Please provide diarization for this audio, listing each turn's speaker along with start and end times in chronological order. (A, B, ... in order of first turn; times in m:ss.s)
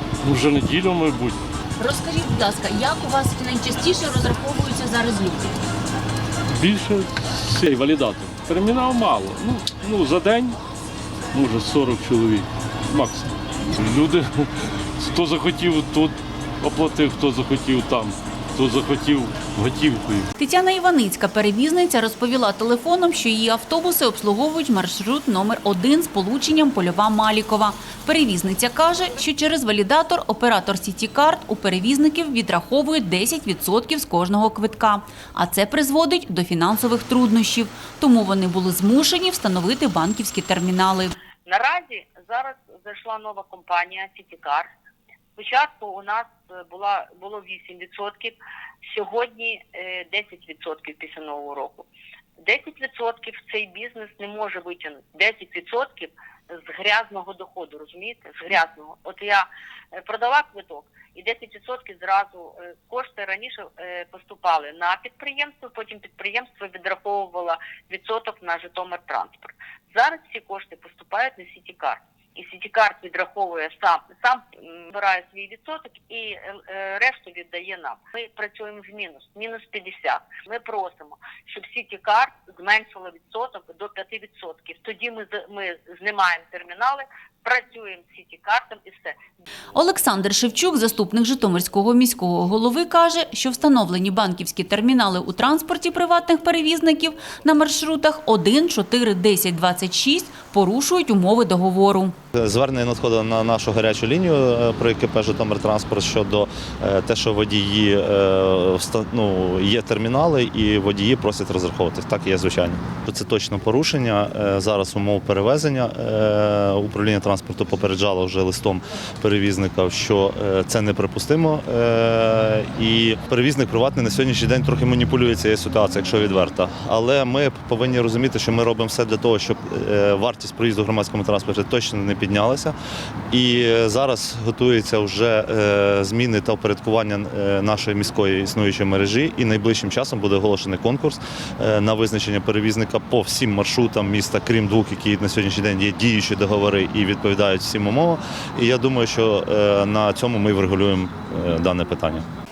0:00.2-0:01.4 A
0:01.8-0:05.6 B
0:06.5-0:10.6 A
0:11.3-0:20.3 A
0:20.4-0:41.2 B
0:41.4-0:44.7 C
0:45.4-0:51.9 C
0:52.4-1:29.2 C
1:29.7-1:42.1 B
1:42.4-2:12.8 D
2:13.3-2:32.3 D